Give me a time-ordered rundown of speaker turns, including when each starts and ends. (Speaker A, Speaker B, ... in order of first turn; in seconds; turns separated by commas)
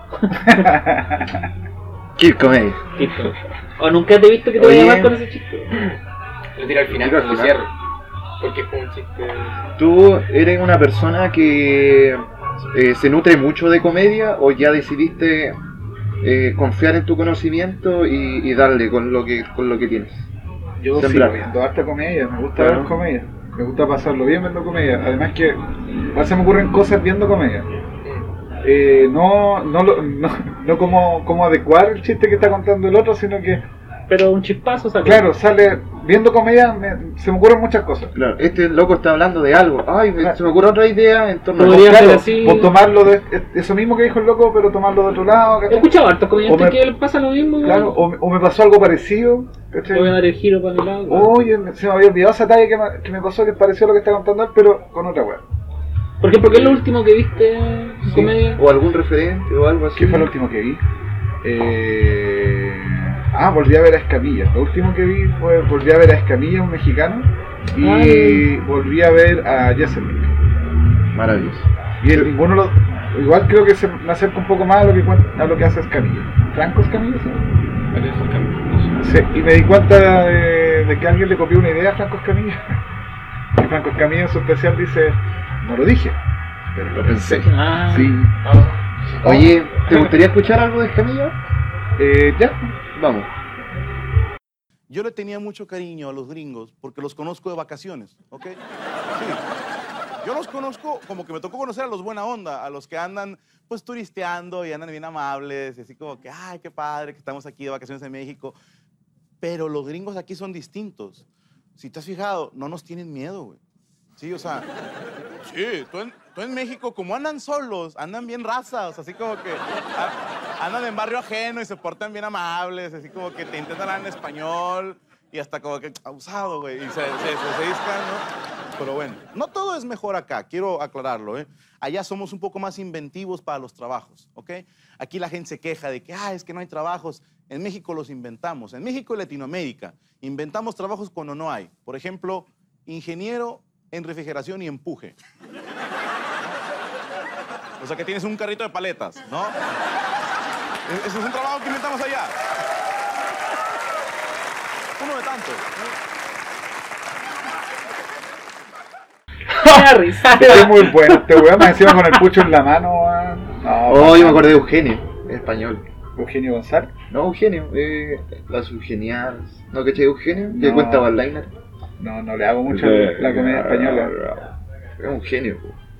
Speaker A: 0.2-0.7, Speaker B: 0.5-1.3, Speaker C: 2.2-2.8, Speaker A: 3.0-5.7, Speaker C: 4.6-5.1, Speaker D: 6.5-7.7, Speaker C: 6.9-7.6, Speaker D: 8.4-9.7, Speaker C: 9.8-15.6, Speaker C: 16.2-20.3, Speaker B: 20.8-27.7, Speaker C: 20.9-21.4, Speaker C: 22.6-22.9, Speaker B: 28.6-33.6, Speaker A: 34.1-35.2, Speaker B: 35.0-38.1, Speaker C: 38.1-42.0, Speaker A: 41.5-42.7, Speaker B: 41.6-45.9, Speaker A: 45.7-48.0, Speaker B: 46.5-46.8, Speaker B: 47.6-50.1, Speaker A: 49.9-51.3, Speaker B: 51.1-55.4, Speaker A: 56.2-58.6, Speaker C: 56.4-56.8, Speaker C: 58.0-60.3, Speaker B: 59.9-60.8, Speaker B: 61.4-70.3, Speaker A: 67.8-68.5, Speaker C: 71.1-72.3, Speaker B: 72.0-77.4, Speaker D: 77.9-79.0, Speaker B: 79.0-82.8, Speaker B: 83.5-86.2, Speaker B: 86.7-88.2, Speaker C: 86.9-88.3, Speaker A: 87.4-88.1, Speaker D: 88.4-88.7, Speaker C: 89.2-91.4, Speaker B: 89.2-90.0, Speaker B: 92.0-92.8, Speaker C: 92.9-93.3, Speaker E: 94.9-98.6, Speaker E: 99.1-99.4, Speaker E: 100.2-108.5, Speaker E: 109.4-111.2, Speaker E: 111.8-113.6, Speaker E: 114.2-114.7, Speaker E: 115.4-128.2, Speaker E: 128.8-145.2, Speaker E: 147.8-149.6, Speaker E: 150.8-152.4, Speaker E: 155.0-155.9, Speaker A: 159.6-160.9, Speaker D: 159.7-160.9, Speaker B: 160.3-164.5, Speaker C: 163.9-165.8, Speaker B: 166.2-166.9, Speaker C: 167.1-171.5, Speaker B: 170.5-171.1, Speaker B: 172.0-174.1, Speaker C: 172.7-175.8